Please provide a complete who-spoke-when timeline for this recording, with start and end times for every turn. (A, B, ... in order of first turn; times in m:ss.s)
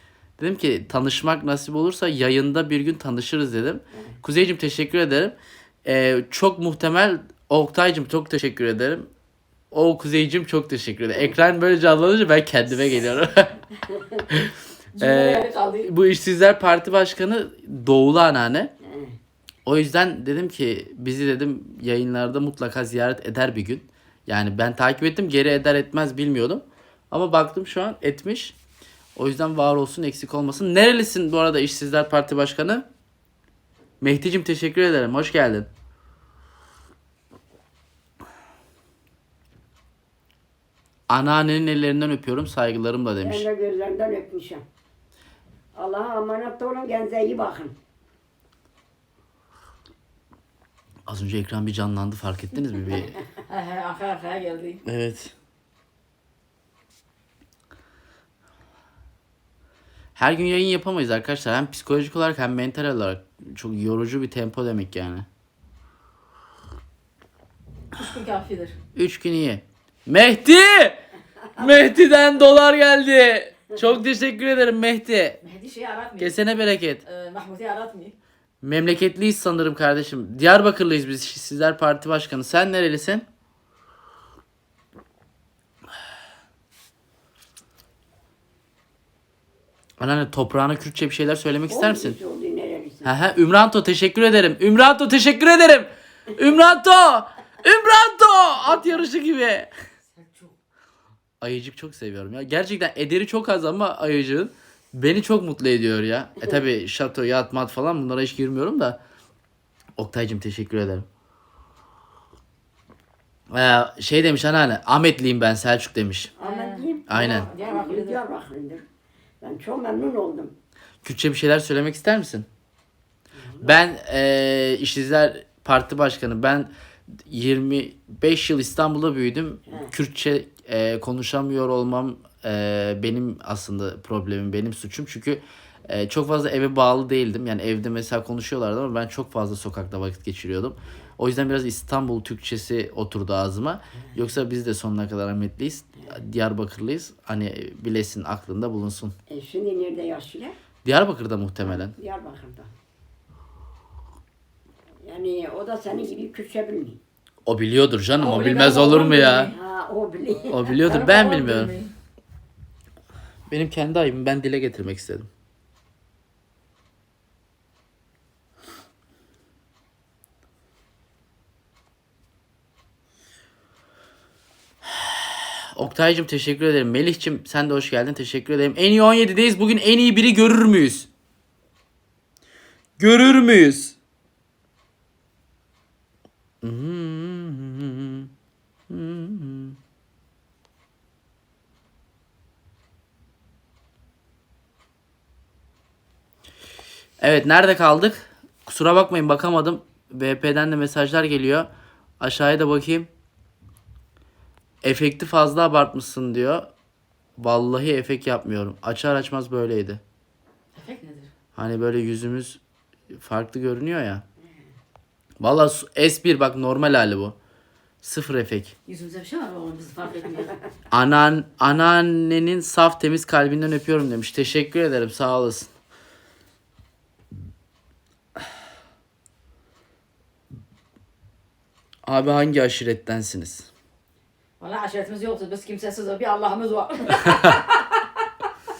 0:00.4-0:09.1 A
0:09.7-0:13.6 A
0:14.3-0:18.7 A
0:15.0-0:15.9 B
0:18.8-0:19.2 C
0:19.7-0:28.6 A
0:29.2-0:32.9 A
0:34.0-0:35.7 A
0:41.1-0:43.5 A
0:43.2-0:44.6 C
0:45.7-0:47.8 C
0:51.1-0:53.2 A
0:53.4-0:54.8 B
0:54.8-0:55.3 A
1:00.2-1:05.3 A
1:07.9-1:08.8 B
1:08.9-1:11.0 A
1:11.5-1:15.4 A
1:15.4-1:18.2 B
1:16.2-1:17.0 A
1:18.6-1:23.2 A
1:30.0-1:32.2 A
1:31.7-1:33.1 C
1:33.0-1:39.7 A
1:38.6-1:39.1 B
1:40.2-1:40.5 B
1:41.4-1:49.0 A
1:50.0-1:51.1 A
1:53.5-1:56.3 A
1:56.4-1:58.8 C
1:56.4-1:58.2 B
1:57.1-1:57.5 A
1:59.4-2:00.5 C
2:01.0-2:02.5 A
2:03.3-2:03.8 C
2:03.6-2:06.7 A
2:07.3-2:29.1 A
2:29.3-2:30.6 C
2:30.8-2:31.9 A
2:31.6-2:32.7 C
2:35.0-2:37.0 C
2:37.4-2:39.5 A
2:38.1-2:39.6 B
2:39.5-2:40.8 C
2:40.5-2:41.7 A
2:40.8-2:41.9 B
2:43.5-2:45.3 A
2:54.9-3:01.1 A
3:03.0-3:04.0 A
3:06.6-3:08.3 A
3:08.9-3:09.8 A
3:17.2-3:21.7 A
3:22.2-3:23.1 A
3:24.8-3:26.7 A
3:27.4-3:30.0 A
3:30.8-3:31.3 B
3:31.6-3:32.6 A
3:33.1-3:34.2 A
3:35.4-3:37.4 A
3:38.0-3:38.8 A
3:38.9-3:40.6 B
3:40.9-3:45.7 A
3:52.1-3:53.7 A
3:54.6-3:58.1 B